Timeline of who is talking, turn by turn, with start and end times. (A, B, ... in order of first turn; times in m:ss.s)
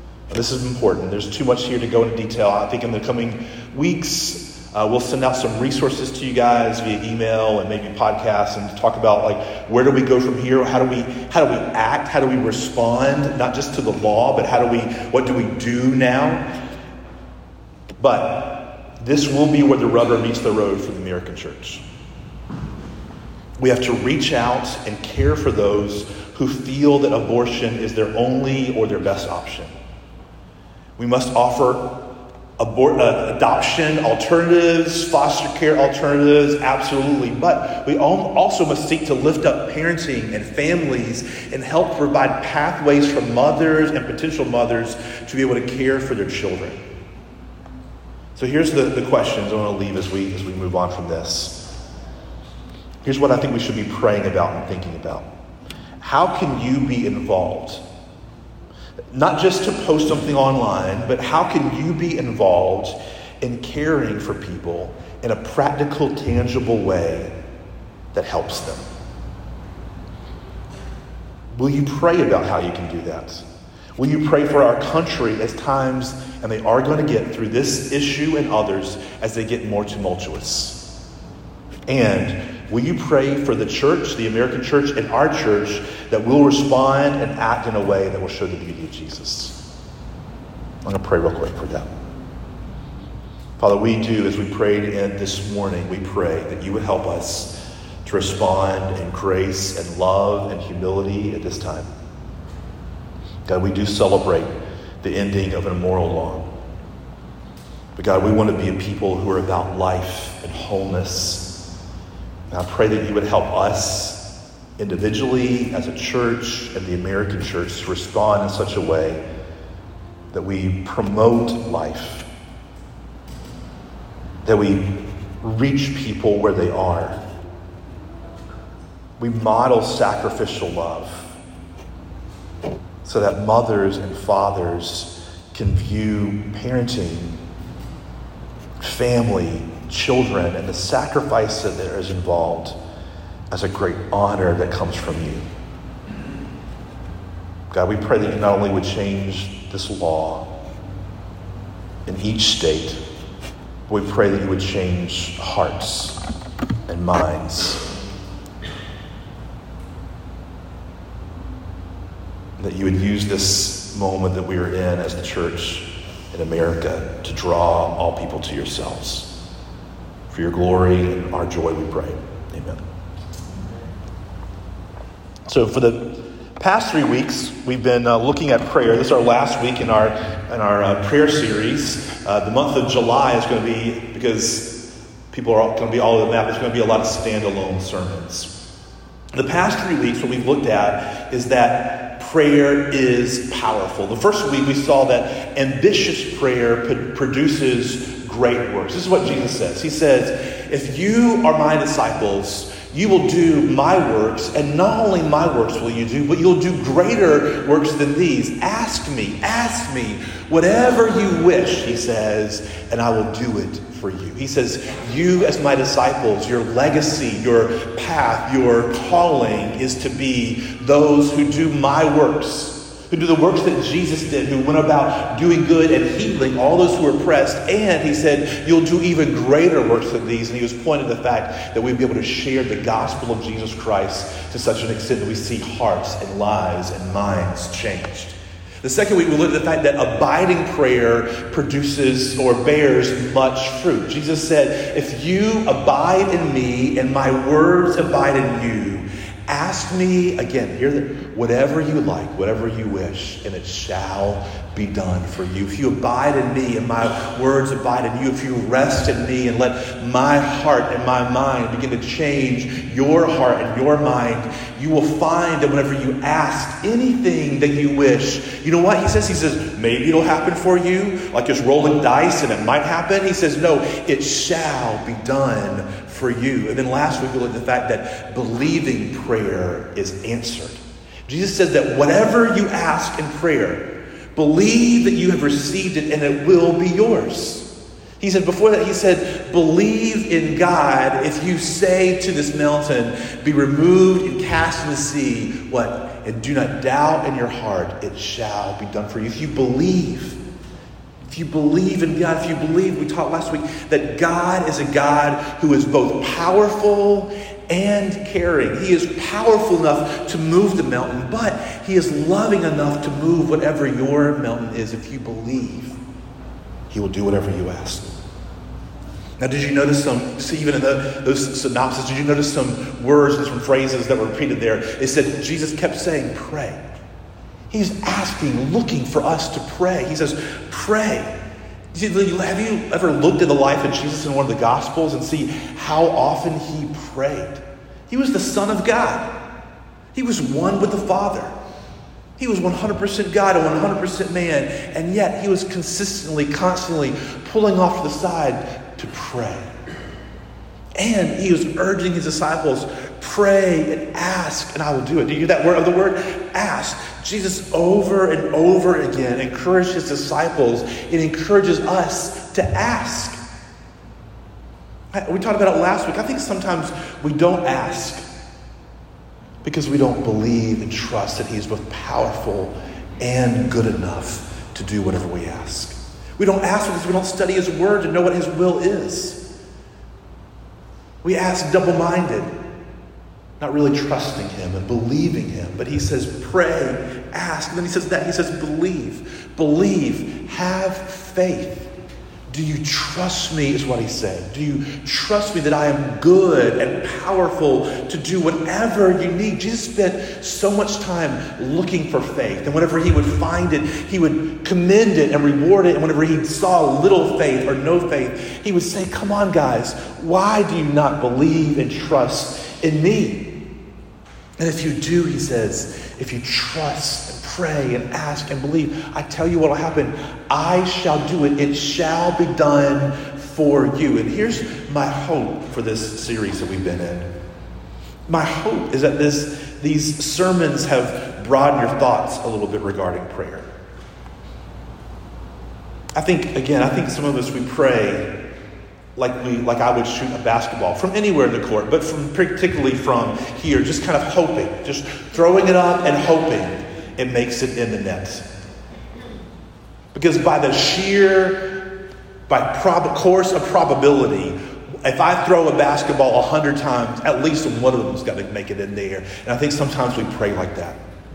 0:00.3-0:16.4 A
0:18.0-0:21.8 A
0:23.6-0:29.7 A
0:31.0-0:32.0 A
0:32.6-0:46.8 A
0:48.4-0:51.7 A
0:53.0-0:55.3 A
0:56.0-0:57.8 A
0:59.1-1:07.3 A
1:08.1-1:08.8 A
1:11.5-1:13.4 A
1:14.0-1:20.8 A
1:21.9-1:29.6 A
1:30.8-1:31.9 A
1:33.6-1:41.9 A
1:43.4-1:46.5 A
1:48.0-1:51.5 A
1:52.5-1:59.2 A
2:00.3-2:02.3 A
2:04.4-2:07.2 A
2:09.2-2:11.4 A
2:13.0-2:17.4 A
2:18.8-2:22.8 A
2:23.5-2:25.4 A
2:27.7-2:30.5 A
2:32.0-2:33.0 A
2:33.9-2:36.2 A
2:36.9-2:37.8 A
2:42.6-2:49.3 A
2:50.3-2:52.8 A
2:55.5-3:08.6 A
3:09.3-4:47.7 A
4:48.2-5:00.4 A
5:01.3-5:16.0 A
5:16.9-5:18.1 A
5:19.4-5:26.8 A
5:27.7-5:31.3 A
5:31.9-5:39.4 A
5:40.1-5:41.5 A
5:42.4-5:49.7 A
5:51.0-6:03.4 A
6:05.1-6:08.2 A
6:09.6-6:19.4 A
6:21.2-6:22.5 A
6:23.6-6:31.9 A
6:32.5-6:53.5 A
6:54.6-7:07.3 A
7:08.3-7:13.7 A
7:16.2-7:18.3 A
7:19.2-7:28.5 A
7:30.1-7:31.8 A
7:32.5-7:41.0 A